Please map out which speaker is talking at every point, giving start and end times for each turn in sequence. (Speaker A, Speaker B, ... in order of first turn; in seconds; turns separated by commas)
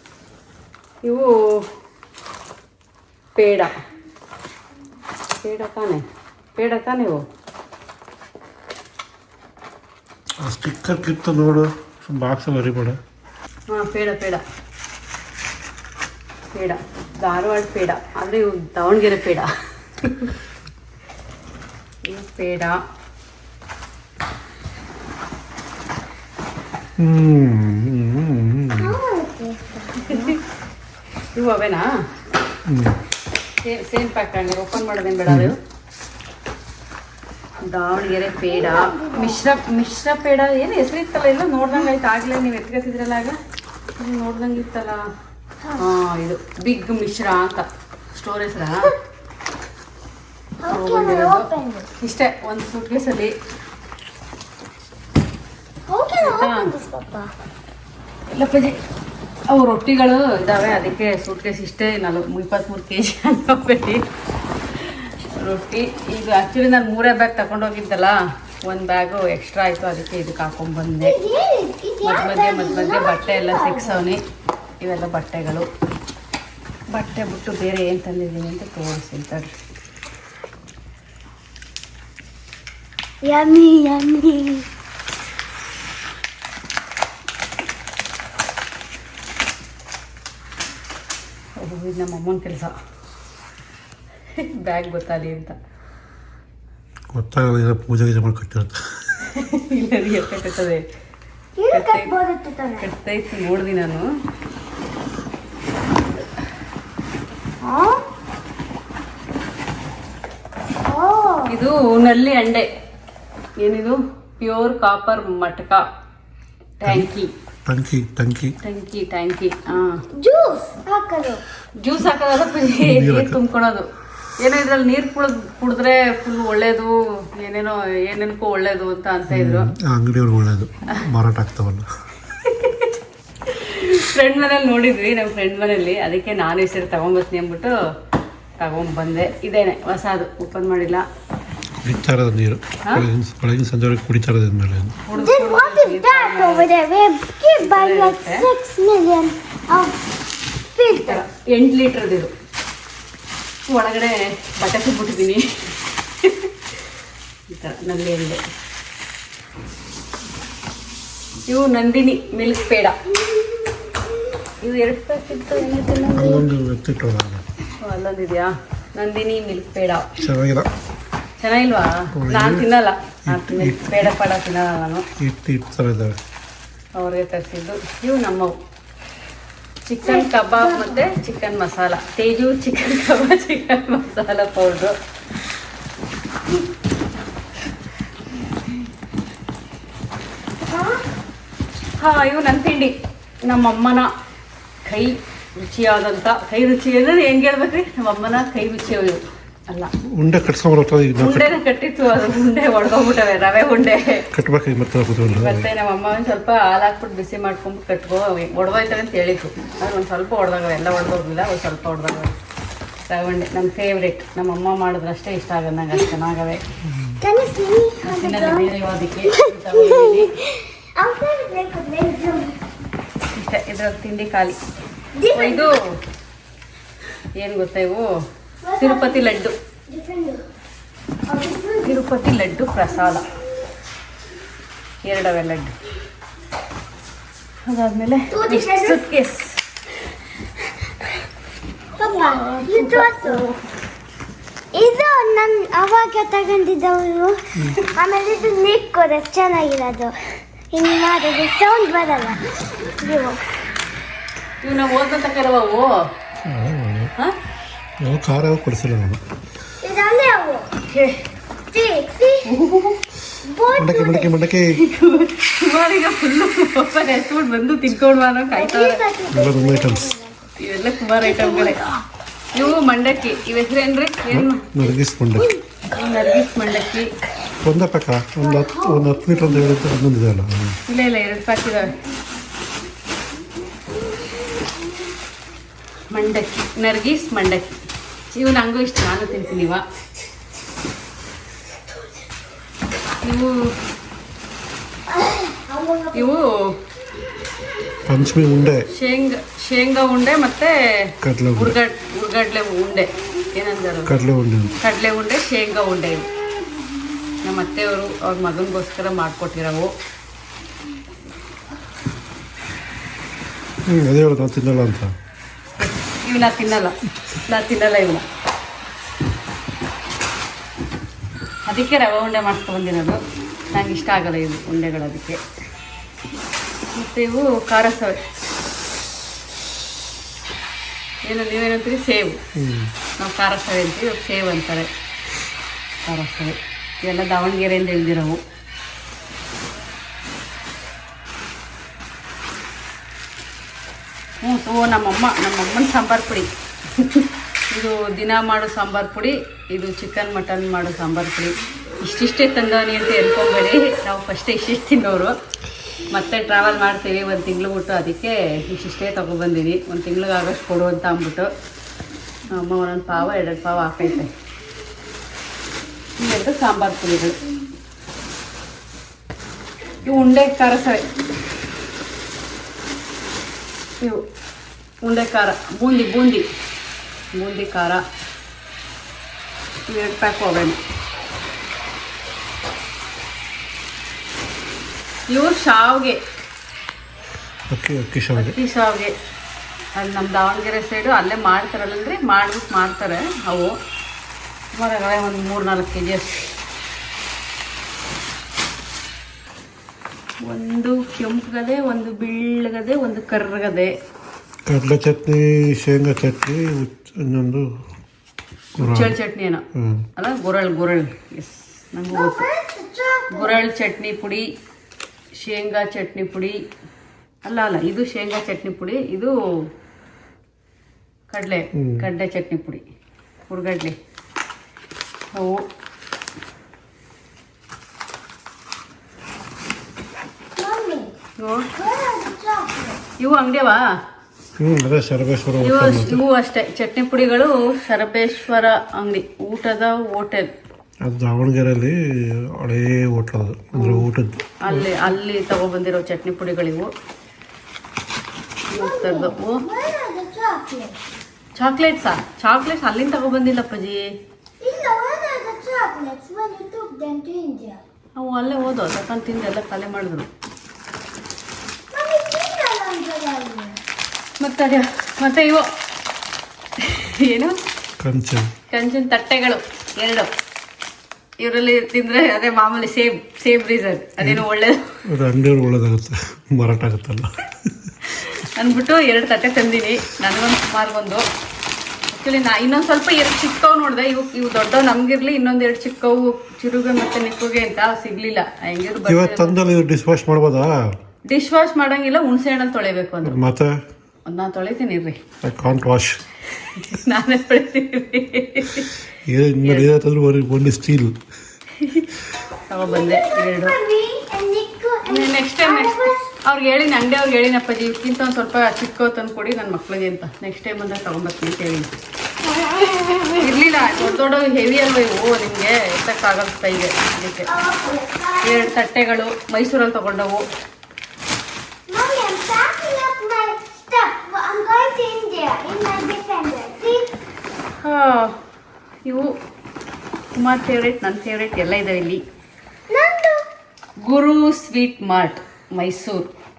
Speaker A: 1.0-1.6, Speaker A: 3.3-3.7, Speaker A: 5.4-6.0, Speaker A: 6.5-7.2, Speaker B: 10.4-13.0, Speaker A: 13.7-14.4, Speaker A: 16.5-19.5, Speaker A: 20.0-20.3, Speaker A: 22.1-22.8, Speaker B: 27.0-29.0, Speaker C: 28.8-30.4, Speaker A: 30.1-30.4, Speaker A: 31.3-31.9, Speaker B: 32.7-33.0, Speaker A: 33.6-35.6, Speaker B: 35.2-35.5, Speaker A: 37.6-43.4, Speaker C: 38.5-39.4, Speaker A: 44.0-45.0, Speaker A: 45.8-48.9, Speaker C: 50.6-51.9, Speaker A: 50.7-51.5, Speaker A: 52.0-53.3, Speaker C: 55.9-57.3, Speaker A: 56.2-56.7, Speaker A: 58.3-58.8, Speaker A: 59.5-64.0, Speaker A: 64.8-71.2, Speaker C: 71.0-74.0, Speaker A: 72.0-74.2, Speaker A: 74.8-75.7, Speaker A: 76.9-79.5, Speaker C: 83.2-84.7, Speaker A: 91.6-92.7, Speaker A: 94.3-95.5, Speaker B: 97.1-99.2, Speaker A: 99.2-100.8, Speaker C: 101.6-102.8, Speaker A: 101.7-102.1, Speaker A: 102.8-104.1, Speaker C: 107.6-108.0, Speaker C: 110.8-111.5, Speaker A: 111.5-112.7, Speaker A: 113.6-115.8, Speaker A: 116.8-117.3, Speaker B: 117.7-118.5, Speaker A: 118.6-120.0, Speaker C: 120.1-121.4, Speaker A: 121.8-123.9, Speaker B: 122.8-123.4, Speaker A: 124.4-129.7, Speaker B: 129.3-131.8, Speaker A: 132.4-137.7, Speaker A: 138.6-141.0, Speaker B: 141.8-144.9, Speaker A: 145.0-146.7, Speaker C: 145.1-150.0, Speaker A: 147.6-148.4, Speaker C: 150.7-151.2, Speaker A: 150.9-152.3, Speaker A: 153.7-155.4, Speaker A: 156.2-156.5, Speaker A: 157.5-158.4, Speaker A: 161.5-163.0, Speaker A: 164.6-166.4, Speaker B: 166.1-167.4, Speaker A: 167.8-170.1, Speaker B: 170.2-170.7, Speaker A: 171.4-175.0, Speaker B: 172.2-172.7, Speaker B: 173.3-174.1, Speaker B: 175.2-176.2, Speaker A: 176.9-178.6, Speaker A: 179.8-184.9, Speaker C: 180.0-181.0, Speaker C: 190.6-191.0, Speaker A: 192.0-192.9, Speaker A: 193.5-194.1, Speaker A: 194.8-199.9, Speaker B: 200.2-201.6, Speaker A: 201.2-204.3, Speaker B: 204.3-205.7, Speaker A: 205.2-212.3, Speaker A: 213.1-216.6, Speaker B: 216.8-217.2, Speaker C: 217.2-218.7, Speaker A: 218.0-220.3, Speaker C: 219.3-222.6, Speaker A: 223.3-224.6, Speaker C: 225.1-225.8, Speaker A: 225.3-225.9, Speaker A: 227.4-228.1, Speaker C: 228.6-229.3, Speaker A: 228.8-229.5, Speaker C: 229.9-230.4, Speaker C: 231.3-232.0, Speaker A: 231.8-233.2, Speaker A: 235.0-235.7, Speaker A: 237.7-239.6, Speaker C: 238.3-239.0, Speaker C: 242.0-243.4, Speaker A: 242.0-243.6, Speaker C: 244.7-250.2, Speaker C: 250.7-253.4, Speaker A: 254.6-256.0, Speaker B: 256.4-257.1, Speaker B: 258.0-259.2, Speaker C: 259.8-260.7, Speaker A: 260.9-261.2, Speaker C: 261.7-262.5, Speaker A: 262.4-263.0, Speaker C: 263.4-264.4, Speaker B: 263.7-264.8, Speaker A: 264.7-269.0, Speaker C: 268.5-270.4, Speaker B: 269.3-270.1, Speaker A: 270.6-271.8, Speaker C: 271.2-272.0, Speaker A: 272.5-274.7, Speaker B: 274.3-275.5, Speaker C: 275.4-275.8, Speaker A: 275.9-277.1, Speaker B: 277.6-280.8, Speaker C: 278.4-279.8, Speaker A: 280.9-281.9, Speaker C: 283.9-284.7, Speaker A: 286.1-289.8, Speaker A: 293.2-293.5, Speaker C: 295.1-296.3, Speaker A: 296.1-296.7, Speaker B: 298.0-298.9, Speaker A: 298.9-304.1, Speaker B: 301.2-301.8, Speaker B: 304.1-304.8, Speaker A: 304.8-306.3, Speaker A: 307.4-309.9, Speaker B: 313.9-315.1, Speaker A: 315.8-316.9, Speaker A: 317.5-318.2, Speaker A: 321.6-323.2, Speaker A: 323.7-325.4, Speaker A: 326.9-328.2, Speaker A: 331.2-332.4, Speaker B: 332.6-332.9, Speaker A: 333.2-334.9, Speaker A: 336.1-338.4, Speaker A: 344.4-355.3, Speaker A: 356.1-361.5, Speaker A: 362.5-364.3, Speaker A: 366.2-367.4, Speaker A: 370.0-371.0, Speaker A: 375.0-376.5, Speaker A: 377.3-378.0, Speaker A: 379.9-380.8, Speaker A: 385.3-386.2, Speaker B: 387.7-388.6, Speaker A: 388.4-389.1, Speaker A: 389.9-393.8, Speaker A: 394.7-396.5, Speaker A: 400.4-403.9, Speaker B: 404.7-407.7, Speaker B: 408.8-409.1, Speaker A: 408.8-409.6, Speaker B: 409.8-410.0, Speaker A: 410.1-412.5, Speaker C: 412.1-413.6, Speaker A: 413.3-414.4, Speaker A: 415.4-416.6, Speaker A: 417.4-419.3, Speaker A: 421.3-422.8, Speaker B: 421.8-422.0, Speaker A: 423.5-423.9, Speaker A: 425.3-425.6, Speaker C: 430.6-431.1, Speaker A: 431.4-431.7, Speaker C: 431.8-433.0, Speaker A: 433.2-433.8, Speaker B: 434.6-436.2, Speaker A: 435.6-440.5, Speaker B: 441.0-445.1, Speaker A: 443.7-444.0, Speaker A: 444.6-446.9, Speaker A: 448.7-449.6, Speaker C: 448.8-451.0, Speaker A: 451.6-454.1, Speaker C: 454.6-457.8, Speaker A: 458.2-460.3, Speaker C: 461.9-463.8, Speaker A: 464.4-465.6, Speaker A: 466.8-467.5, Speaker B: 468.0-468.5, Speaker A: 468.7-470.3, Speaker A: 471.4-474.8, Speaker B: 475.1-477.9, Speaker A: 478.0-481.2, Speaker A: 482.1-489.5, Speaker B: 489.1-490.7, Speaker A: 491.3-493.4, Speaker B: 493.2-493.8, Speaker A: 494.3-495.2, Speaker B: 495.4-496.2, Speaker A: 496.5-498.9, Speaker B: 499.3-501.1, Speaker A: 499.6-499.9, Speaker A: 501.8-502.1, Speaker A: 502.7-503.8, Speaker C: 502.8-506.3, Speaker A: 505.1-511.9, Speaker C: 512.4-514.1, Speaker A: 513.4-517.5, Speaker C: 517.5-518.7, Speaker A: 518.4-520.4, Speaker C: 521.9-527.1, Speaker A: 527.8-528.3, Speaker A: 529.0-529.3, Speaker A: 530.4-532.2, Speaker C: 532.9-533.4, Speaker A: 534.0-536.3